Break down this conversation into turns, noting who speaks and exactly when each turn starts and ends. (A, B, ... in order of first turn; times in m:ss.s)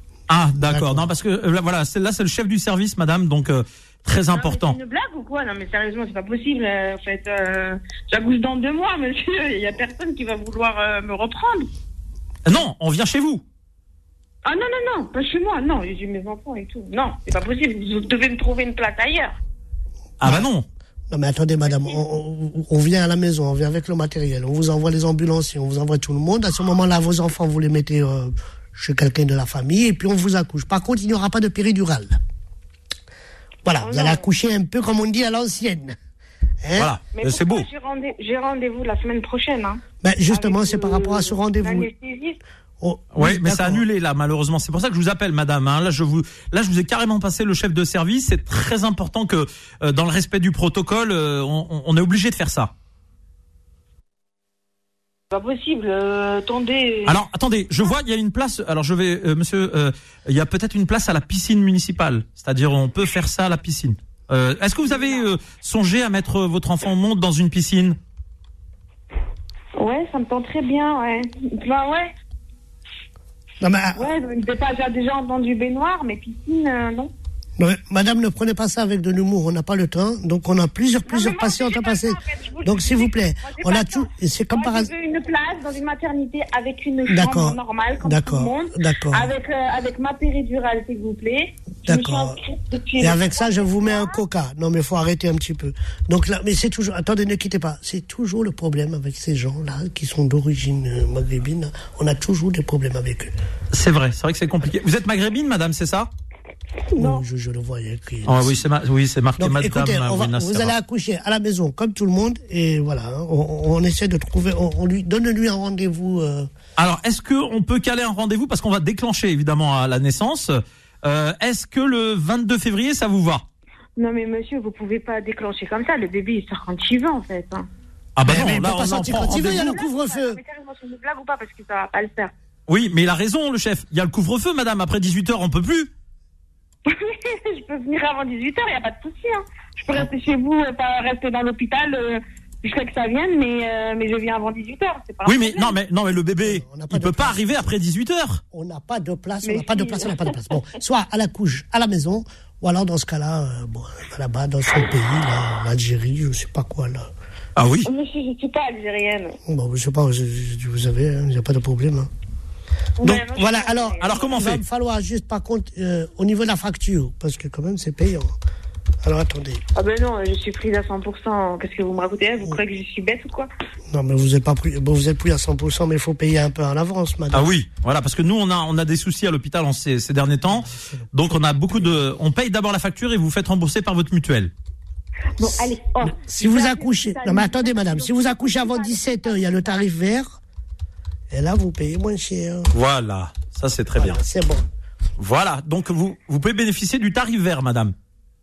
0:00.3-0:04.8 A
0:00.6-0:01.1 B
0:04.3-0:11.7 C
0:12.4-0:13.4 A
0:14.4-0:19.4 C
0:20.2-0:20.7 A
0:21.1-0:32.2 B
0:21.7-0:22.0 C
0:33.6-0:36.0 B
0:33.8-0:34.2 C
0:36.6-0:36.9 B
0:36.8-0:37.7 A
0:37.1-0:42.4 C
0:40.0-0:41.9 B
0:42.8-0:43.8 B
0:43.1-0:52.7 A
0:55.3-0:57.1 C
0:57.0-1:08.0 A
1:04.8-1:05.3 C
1:09.8-1:12.1 C
1:13.6-1:14.1 B
1:14.0-1:17.1 C
1:17.6-1:24.9 B
1:21.1-1:34.2 C
1:27.1-1:29.3 B
1:31.9-1:32.4 B
1:33.0-1:43.3 B
1:43.7-1:46.1 A
1:46.9-1:47.2 C
1:46.9-1:48.6 B
1:48.2-1:50.7 A
1:49.4-1:56.5 B
1:56.8-2:03.4 A
2:04.0-2:07.7 C
2:08.2-2:09.8 A
2:08.2-2:10.4 B
2:08.9-2:12.3 C
2:12.7-2:15.9 A
2:16.9-2:25.8 C
2:25.2-2:28.4 A
2:26.4-2:27.4 B
2:28.5-2:37.1 B
2:29.4-2:30.4 C
2:37.6-2:37.9 A
2:37.8-2:39.4 C
2:39.5-2:42.1 B
2:43.0-2:44.4 C
2:43.0-2:48.4 B
2:44.0-2:44.6 A
2:49.0-2:49.6 B
2:49.8-2:53.5 C
2:53.9-2:57.5 B
2:57.3-3:04.5 A
3:00.6-3:01.0 B
3:05.4-3:09.8 C
3:06.0-3:10.4 B
3:11.3-3:12.7 B
3:12.7-3:14.2 A
3:14.0-3:14.6 B
3:15.2-3:17.9 A